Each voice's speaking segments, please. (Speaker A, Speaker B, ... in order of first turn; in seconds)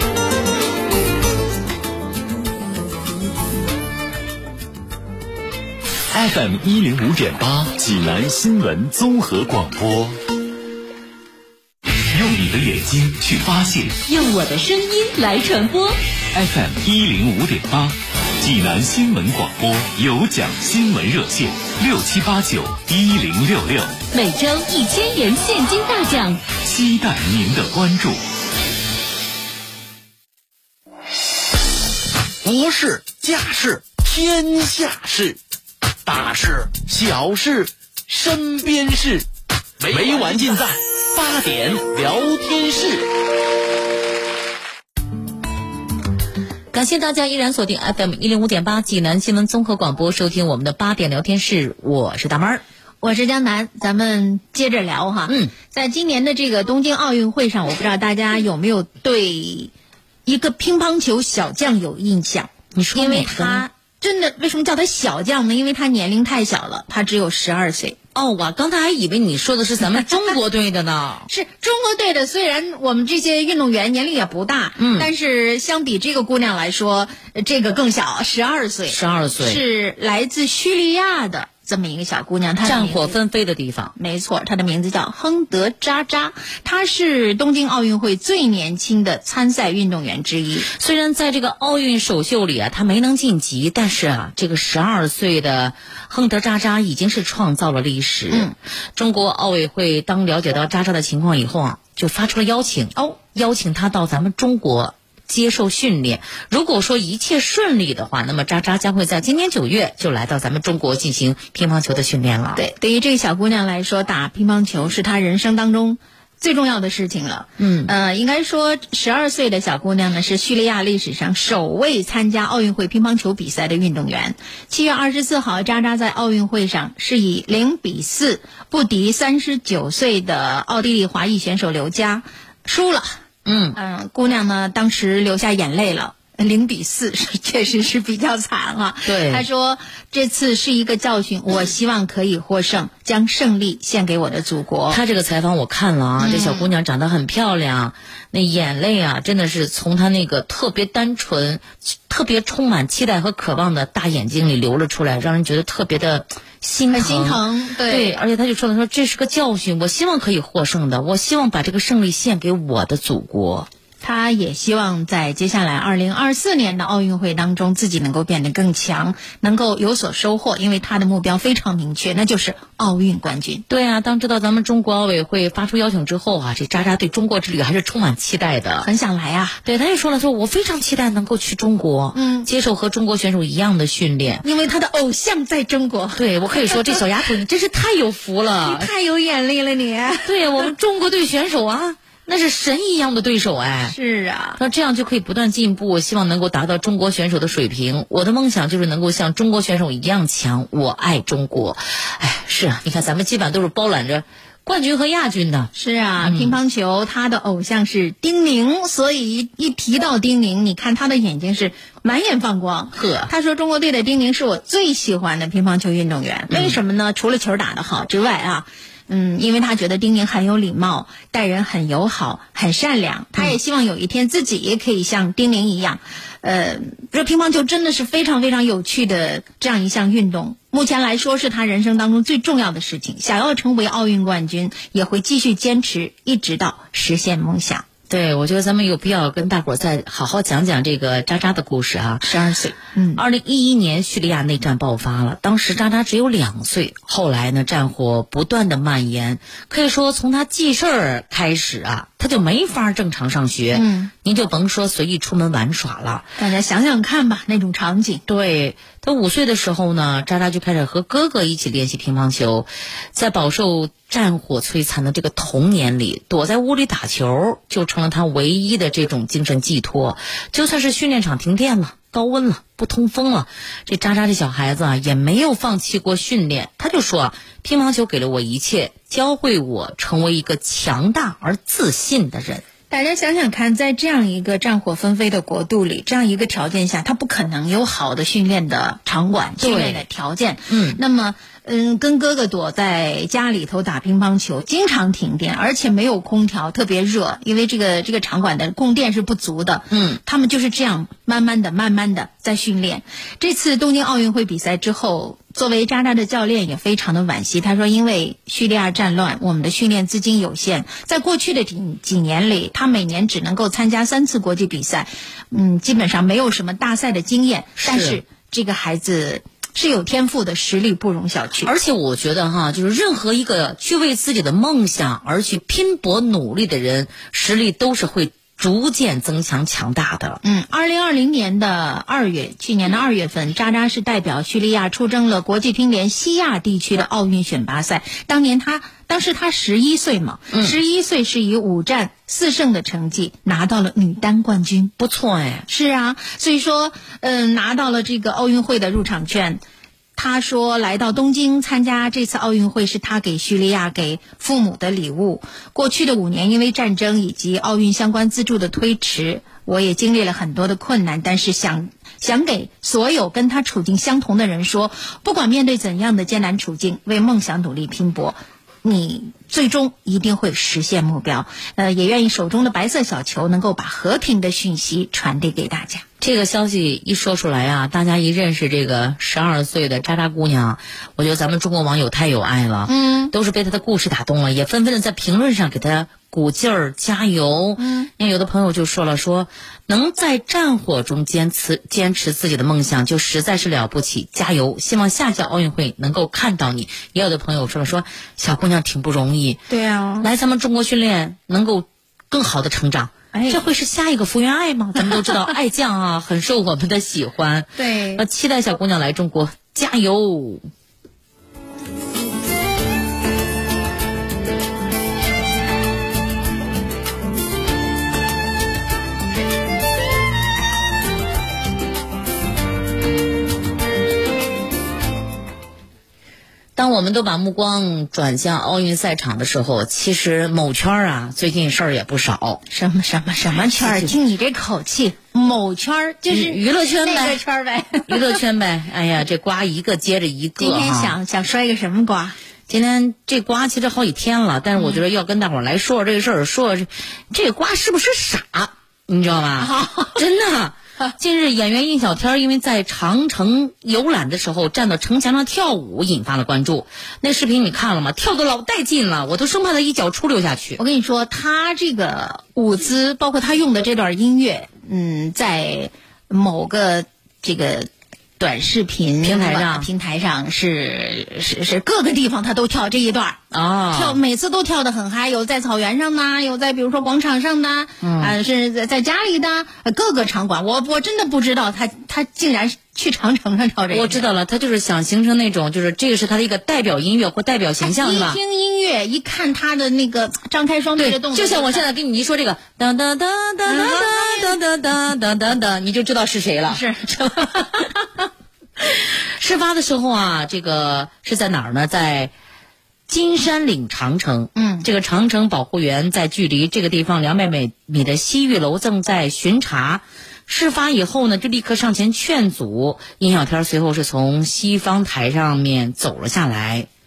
Speaker A: 6.1-10.2, 12.1-14.0, 16.3-24.0, 26.6-28.2
Speaker B: 14.0-16.0, 24.1-26.4
Speaker C: 32.4-35.4, 36.0-39.2, 39.8-43.0
Speaker D: 46.7-52.6, 55.3-55.5, 62.7-63.6, 68.1-71.3, 74.8-75.1, 78.9-79.6, 82.6-83.9, 90.7-112.6, 117.6-117.9, 133.4-133.8, 139.0-139.4, 144.9-163.7, 173.7-178.9, 179.6-184.4, 186.2-188.9, 190.2-193.9, 194.6-206.6, 212.9-213.3, 216.5-216.8, 238.1-242.2, 243.1-256.3, 258.3-282.6, 289.6-290.0, 290.7-291.0, 299.9-300.2, 317.8-318.2, 321.6-330.4, 345.0-345.7, 376.2-399.6, 400.2-410.7, 426.8-432.6, 433.5-434.1, 436.3-437.4, 438.0-441.1, 442.7-460.8, 469.2-469.9, 473.5-474.2, 478.0-478.3, 483.9-488.4, 491.0-496.9, 497.4-497.8, 498.8-502.3, 503.1-516.9
Speaker E: 53.0-59.7, 60.2-68.0, 71.3-83.1, 84.0-90.7, 112.5-133.2, 133.7-145.0, 146.2-146.7, 156.9-158.1, 164.0-173.6, 178.8-179.6, 182.1-182.5, 184.4-187.0, 188.6-190.7, 193.8-194.6, 205.8-237.8, 242.2-243.2, 253.7-254.1, 256.4-258.2, 282.9-321.7, 330.4-344.9, 345.7-349.6, 350.1-376.0, 382.9-383.3, 387.8-388.1, 399.7-400.3, 403.3-403.6, 407.8-408.2, 432.7-438.4, 440.6-442.4, 449.6-450.2, 460.8-467.9, 468.4-473.4, 473.9-484.2, 487.8-491.8, 493.6-494.5, 496.7-497.9, 504.6-504.9